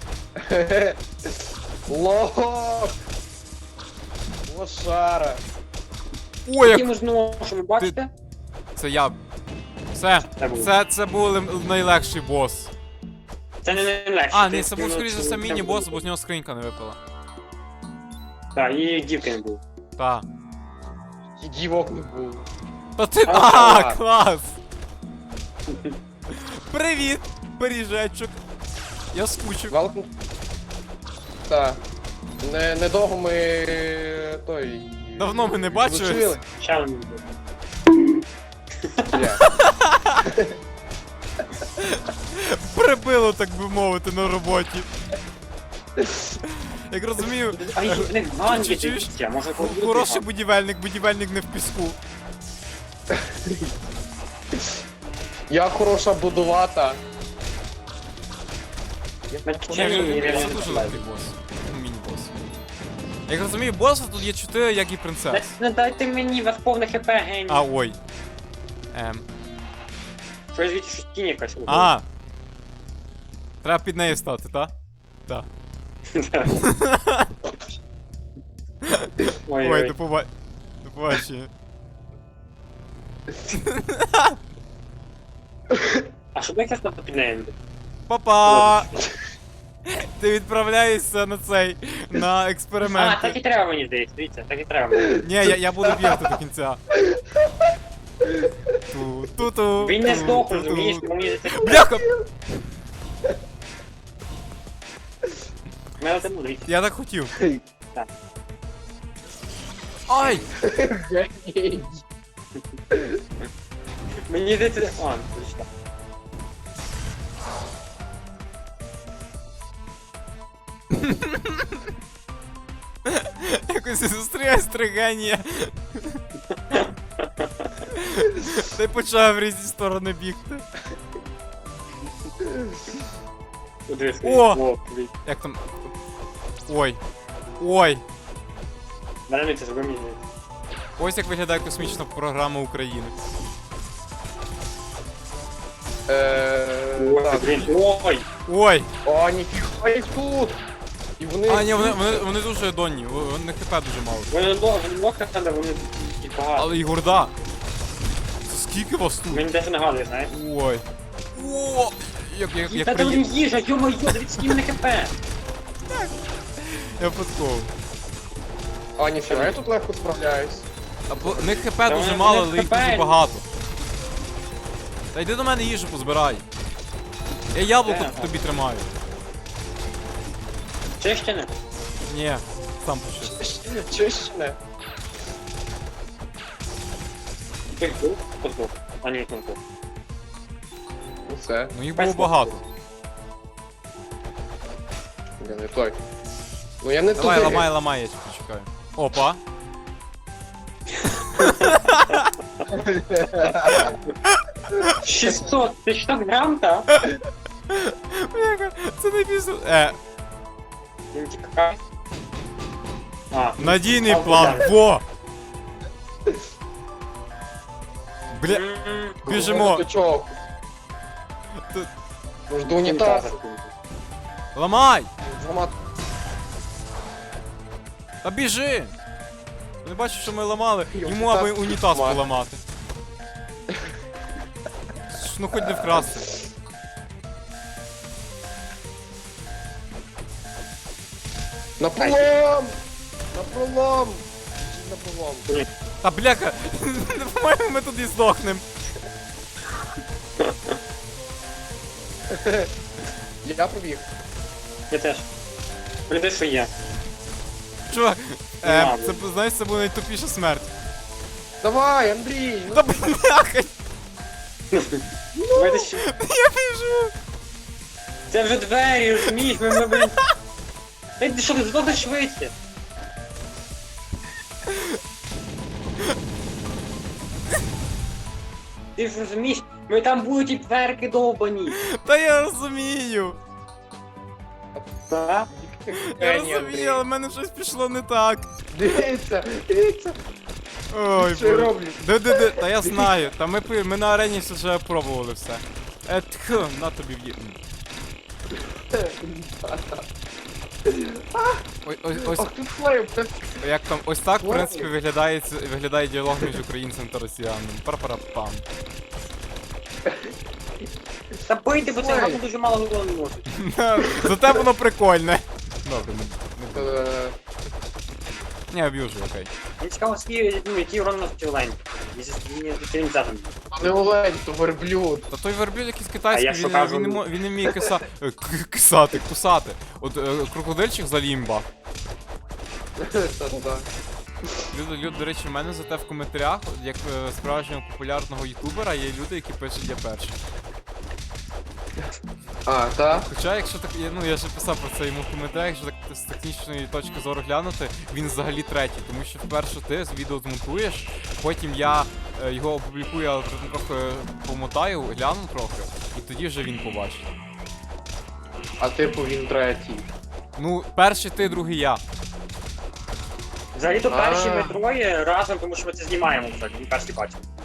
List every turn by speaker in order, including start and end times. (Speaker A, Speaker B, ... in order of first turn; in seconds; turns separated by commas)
Speaker A: 0.4-2.9, Speaker A: 4.5-5.4, Speaker B: 6.5-6.9, Speaker C: 6.6-8.1, Speaker B: 8.8-9.2, Speaker B: 9.9-12.7, Speaker C: 10.3-10.7, Speaker C: 13.6-16.0, Speaker B: 14.3-17.0, Speaker C: 18.5-19.6, Speaker B: 20.0-20.2, Speaker A: 21.4-22.5, Speaker B: 23.0-24.6, Speaker C: 23.3-23.7, Speaker A: 23.4-24.0, Speaker C: 25.7-25.9, Speaker B: 26.3-28.4, Speaker B: 29.1-29.8, Speaker A: 29.7-30.1, Speaker A: 31.5-31.8, Speaker A: 32.4-36.4, Speaker B: 35.2-36.4, Speaker C: 36.6-37.2, Speaker C: 38.8-39.2, Speaker A: 39.1-39.4, Speaker B: 39.4-40.2, Speaker A: 40.2-40.5, Speaker B: 41.8-44.9, Speaker A: 46.0-46.3, Speaker B: 46.4-52.0, Speaker C: 47.6-50.2, Speaker A: 53.1-53.7, Speaker A: 55.5-57.0, Speaker A: 59.3-60.8, Speaker C: 59.4-61.0, Speaker B: 59.7-62.3, Speaker B: 63.3-65.5, Speaker C: 65.3-67.7, Speaker B: 67.5-68.0, Speaker B: 68.9-69.2, Speaker C: 70.5-71.9, Speaker B: 71.7-72.0, Speaker B: 73.6-74.7, Speaker C: 76.1-76.7, Speaker B: 76.5-77.3, Speaker B: 78.8-80.3, Speaker C: 79.4-79.9, Speaker B: 80.8-81.5, Speaker B: 83.5-84.4, Speaker A: 85.7-86.0, Speaker C: 86.3-87.5, Speaker B: 88.1-88.9, Speaker C: 88.5-89.0, Speaker B: 89.9-93.3, Speaker C: 92.8-95.2, Speaker A: 94.9-96.3, Speaker B: 95.2-96.8, Speaker A: 97.0-97.7, Speaker A: 98.2-98.8, Speaker B: 98.9-102.1, Speaker C: 99.8-101.8, Speaker A: 101.5-102.2, Speaker C: 106.0-106.7, Speaker B: 106.7-107.3, Speaker A: 107.3-107.6, Speaker B: 110.1-110.5, Speaker C: 110.2-110.5, Speaker A: 110.6-112.0, Speaker A: 112.9-113.2, Speaker C: 114.3-115.6, Speaker B: 120.9-121.8, Speaker B: 123.0-126.2, Speaker C: 126.7-127.7, Speaker B: 127.9-130.6, Speaker A: 132.4-132.8, Speaker C: 133.9-135.1, Speaker B: 134.2-134.6, Speaker B: 135.2-135.6, Speaker B: 136.7-137.0, Speaker B: 137.6-138.0, Speaker C: 139.3-140.2, Speaker B: 141.0-143.1, Speaker A: 146.1-147.7, Speaker C: 146.9-148.2, Speaker B: 148.4-148.9, Speaker A: 149.0-150.6, Speaker A: 151.2-152.3, Speaker B: 151.5-154.3, Speaker C: 154.3-156.7, Speaker B: 156.6-157.3, Speaker B: 158.4-159.5, Speaker C: 159.3-160.3, Speaker B: 160.3-163.3, Speaker C: 162.7-165.1, Speaker B: 165.9-167.7, Speaker A: 169.0-170.7, Speaker C: 169.3-169.5, Speaker B: 171.1-173.4, Speaker C: 171.2-173.2, Speaker B: 175.1-176.4, Speaker B: 177.5-178.9, Speaker C: 177.8-178.3, Speaker C: 181.0-181.5, Speaker B: 182.1-183.4, Speaker A: 183.2-184.6, Speaker C: 187.8-189.6, Speaker A: 191.2-191.7, Speaker B: 191.7-192.6, Speaker C: 191.9-192.6, Speaker A: 195.4-196.0, Speaker A: 196.8-197.7, Speaker B: 197.2-199.4, Speaker C: 201.0-202.2, Speaker B: 201.4-202.3, Speaker A: 202.7-203.9, Speaker B: 203.6-205.0, Speaker C: 205.0-206.9, Speaker B: 206.9-210.0, Speaker C: 211.1-211.8, Speaker C: 213.3-214.7, Speaker B: 213.6-215.0, Speaker B: 218.3-218.6, Speaker C: 218.5-219.2, Speaker B: 219.2-219.8, Speaker A: 219.2-220.4, Speaker B: 221.6-221.9, Speaker A: 222.5-223.3, Speaker C: 222.8-223.7, Speaker B: 224.5-225.1, Speaker A: 225.2-225.7, Speaker B: 228.2-228.9, Speaker B: 229.8-232.6, Speaker A: 230.9-232.2, Speaker B: 235.1-236.4, Speaker A: 235.6-236.1, Speaker A: 241.8-242.8, Speaker C: 242.0-242.3, Speaker A: 243.3-245.5, Speaker B: 246.0-248.6, Speaker C: 250.4-250.8, Speaker A: 252.3-252.7, Speaker A: 253.4-254.1, Speaker C: 254.9-255.2, Speaker C: 256.1-256.7, Speaker B: 257.9-260.7, Speaker C: 258.6-259.2, Speaker A: 261.6-262.9, Speaker B: 262.7-263.7, Speaker C: 264.7-266.1, Speaker B: 265.4-267.1, Speaker C: 268.3-270.2, Speaker B: 269.2-270.2, Speaker C: 271.2-272.5, Speaker B: 274.7-275.0, Speaker C: 278.9-281.8, Speaker B: 281.7-283.4, Speaker C: 285.1-285.5, Speaker A: 285.5-287.0, Speaker B: 285.9-288.5, Speaker A: 288.7-290.1, Speaker B: 290.9-297.6, Speaker A: 291.1-293.1, Speaker A: 298.9-300.0, Speaker A: 300.9-301.6, Speaker B: 301.8-302.5, Speaker A: 302.2-303.6, Speaker B: 303.6-308.6, Speaker A: 304.4-304.9, Speaker C: 311.5-313.5, Speaker A: 311.9-312.4, Speaker B: 313.5-317.0, Speaker A: 314.0-314.6, Speaker A: 316.7-317.4, Speaker B: 318.7-319.5, Speaker C: 319.8-323.5, Speaker A: 323.7-325.3, Speaker B: 325.3-331.7, Speaker C: 326.3-327.2, Speaker A: 333.0-333.9, Speaker B: 334.7-340.4, Speaker A: 342.6-343.3, Speaker B: 343.1-357.3, Speaker A: 358.8-360.1, Speaker B: 360.6-362.0, Speaker C: 363.7-367.4, Speaker A: 364.1-364.8